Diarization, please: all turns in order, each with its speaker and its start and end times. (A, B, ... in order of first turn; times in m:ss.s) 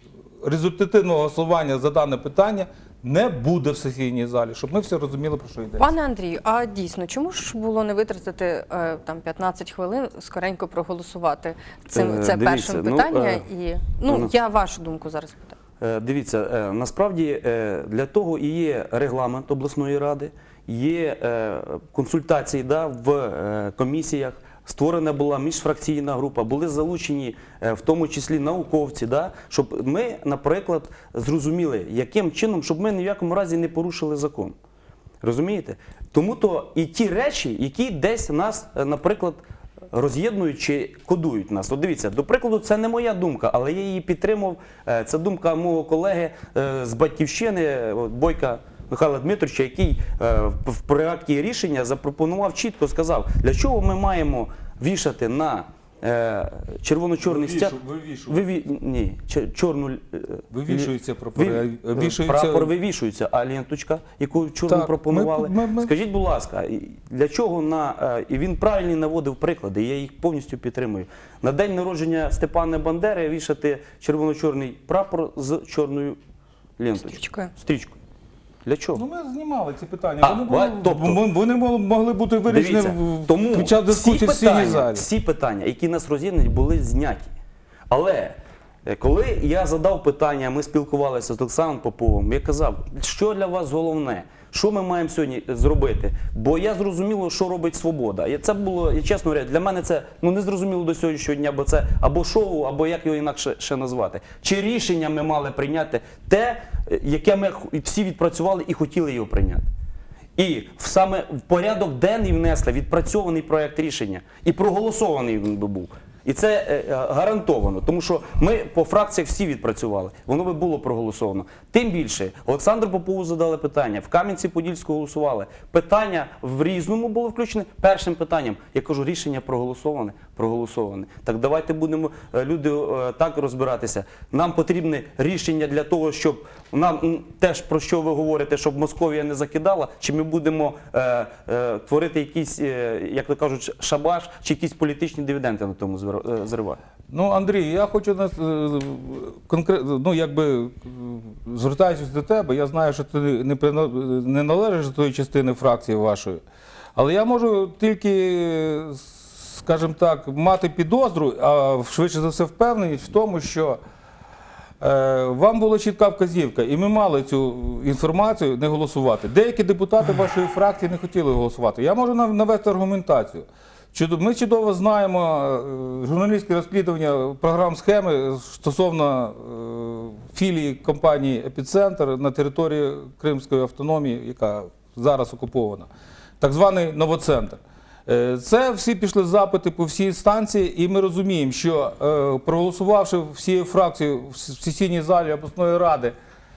0:00.4-0:05.9 A
0:05.8-0:15.6 B
0:11.9-0:13.4 C
0:15.8-0:34.6 C
0:35.2-0:57.8 C
0:57.2-0:58.4 A
0:58.3-1:16.2 C
1:00.5-1:02.7 A
1:04.7-1:05.9 A
1:16.8-1:18.0 C
1:17.0-1:17.5 B
1:18.6-1:19.0 C
1:18.9-1:25.0 A
1:20.2-1:21.2 C
1:22.5-1:27.3 C
1:27.9-1:49.7 C
1:50.4-2:26.8 C
2:27.1-2:36.4 A
2:36.9-2:43.8 A
2:44.8-3:05.9 A
3:06.4-3:16.1 A